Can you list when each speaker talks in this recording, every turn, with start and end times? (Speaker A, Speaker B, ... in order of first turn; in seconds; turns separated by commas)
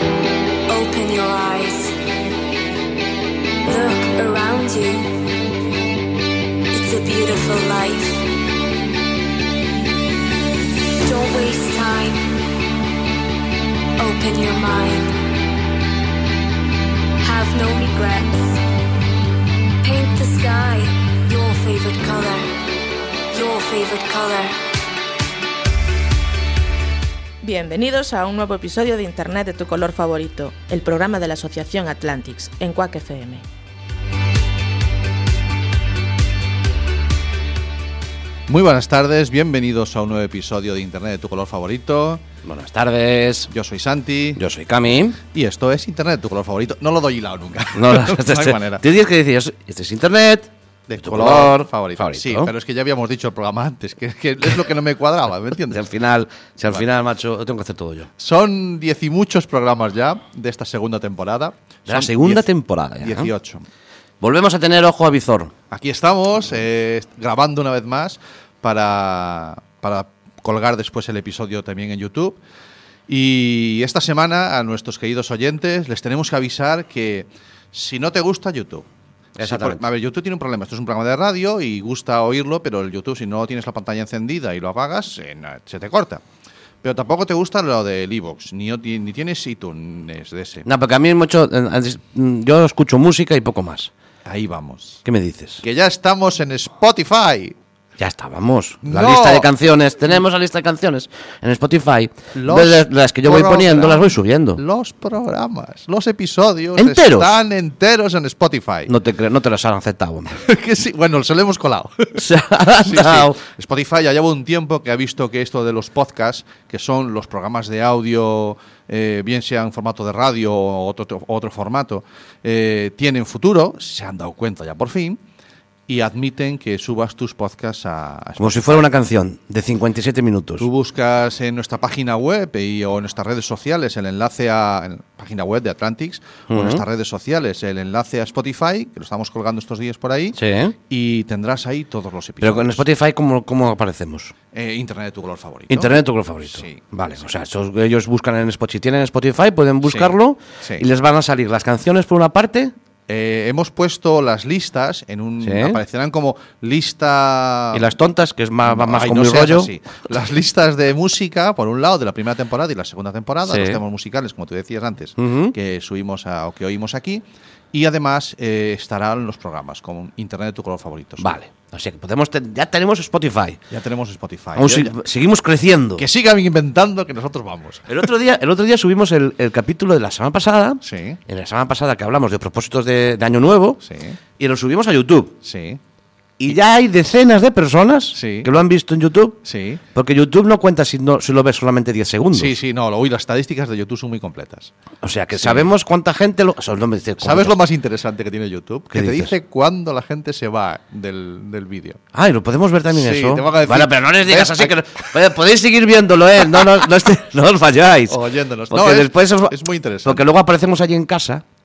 Speaker A: 0.7-1.9, Speaker A: 3.6-5.1, Speaker A: 6.7-8.2, Speaker A: 11.0-12.2, Speaker A: 14.0-15.1, Speaker A: 17.2-18.6, Speaker A: 19.8-22.5, Speaker A: 23.3-24.6, Speaker B: 27.4-33.4, Speaker C: 38.5-42.2, Speaker D: 42.4-43.5, Speaker C: 43.5-44.4, Speaker D: 44.4-45.2, Speaker C: 45.3-48.8, Speaker D: 47.7-50.5, Speaker C: 50.9-55.8, Speaker D: 51.0-52.5, Speaker D: 55.6-58.1, Speaker C: 58.2-62.5, Speaker D: 61.9-63.3, Speaker C: 63.0-63.6, Speaker D: 64.2-65.5, Speaker C: 65.7-72.4, Speaker C: 73.1-78.9, Speaker D: 79.3-79.8, Speaker C: 79.4-86.2, Speaker C: 86.8-90.7, Speaker D: 90.7-93.9, Speaker C: 94.2-95.0, Speaker D: 95.0-95.6, Speaker C: 95.6-97.5, Speaker D: 98.0-104.6, Speaker C: 98.8-99.5, Speaker C: 102.3-108.9, Speaker D: 106.8-107.3, Speaker D: 108.9-110.4, Speaker C: 110.3-112.2, Speaker D: 112.2-113.4, Speaker C: 112.8-125.2, Speaker C: 125.9-128.9, Speaker D: 128.4-130.7, Speaker C: 130.6-140.4, Speaker D: 136.5-136.8, Speaker D: 140.3-140.7, Speaker C: 140.9-142.8, Speaker D: 142.4-144.3, Speaker C: 144.5-147.2, Speaker D: 145.7-152.7, Speaker C: 149.8-150.8, Speaker C: 153.1-157.9, Speaker D: 155.4-155.8, Speaker D: 157.7-159.7, Speaker C: 158.6-171.3, Speaker D: 163.5-163.8, Speaker D: 165.2-165.5, Speaker D: 171.2-173.6, Speaker C: 173.7-174.9, Speaker D: 174.6-176.0, Speaker C: 176.0-178.1, Speaker D: 177.9-183.8, Speaker C: 180.8-181.2, Speaker C: 183.8-184.2, Speaker D: 184.4-185.3, Speaker C: 185.4-185.8, Speaker D: 186.4-189.4, Speaker C: 188.1-188.5, Speaker C: 189.4-189.8, Speaker D: 189.9-192.5, Speaker C: 192.3-194.7, Speaker D: 195.0-197.6, Speaker C: 195.3-195.7, Speaker C: 197.2-202.0, Speaker D: 198.9-199.3, Speaker D: 202.1-208.2, Speaker C: 202.9-205.1, Speaker C: 206.4-206.9, Speaker C: 208.1-210.2, Speaker D: 208.7-211.4